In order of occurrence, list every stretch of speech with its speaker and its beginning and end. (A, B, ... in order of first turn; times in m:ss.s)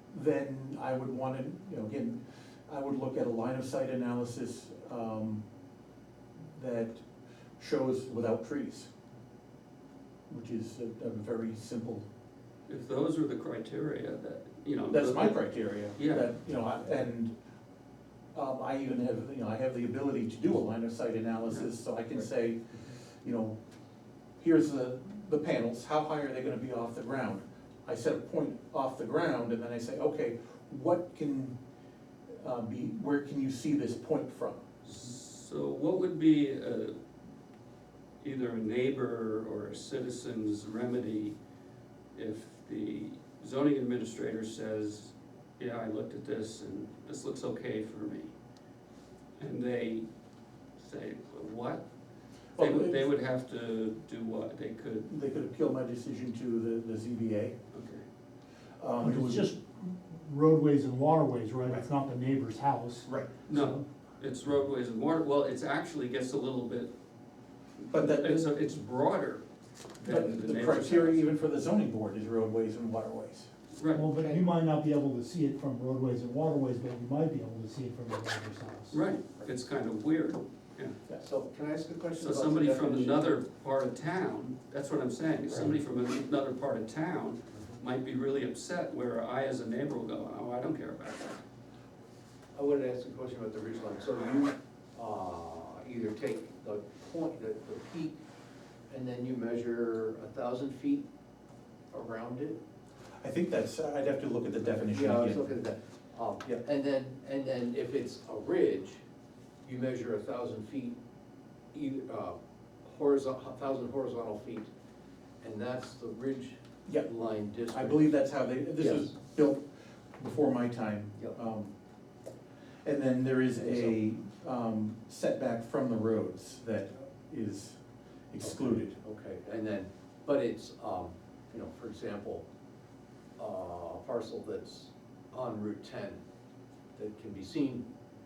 0:00.1-0:05.4 A
0:06.5-0:07.0 A
0:07.6-0:08.9 A
0:10.3-0:12.1 A
0:12.7-0:15.4 B
0:14.9-0:17.3 A
0:15.9-0:16.3 B
0:18.3-0:23.6 A
0:24.4-0:31.6 A
0:32.3-0:34.6 A
0:34.8-0:37.0 B
0:38.2-0:41.4 B
0:42.1-0:48.3 B
0:49.4-0:50.1 B
0:50.8-0:51.8 B
0:52.5-0:53.1 A
0:52.6-0:55.1 B
0:55.1-0:57.5 A
0:57.7-0:58.0 B
0:58.8-0:59.5 A
0:59.0-1:03.8 C
1:03.0-1:03.3 A
1:03.5-1:06.9 B
1:07.8-1:09.4 B
1:07.9-1:08.5 A
1:10.0-1:11.2 B
1:10.0-1:13.5 A
1:13.7-1:14.1 B
1:13.9-1:19.0 C
1:14.2-1:14.4 D
1:18.9-1:21.0 B
1:21.2-1:23.3 D
1:22.2-1:31.4 B
1:32.5-1:38.2 D
1:38.9-1:41.1 D
1:41.9-1:42.6 D
1:43.2-1:45.5 A
1:44.8-1:49.0 D
1:49.6-1:51.0 D
1:51.7-1:54.7 D
1:55.4-1:58.2 D
1:57.7-1:59.6 A
1:58.8-1:59.1 D
2:00.2-2:01.7 A
2:02.8-2:07.8 A
2:03.6-2:03.9 D
2:08.3-2:09.0 A
2:08.4-2:12.4 D
2:13.4-2:16.2 D
2:17.0-2:17.8 D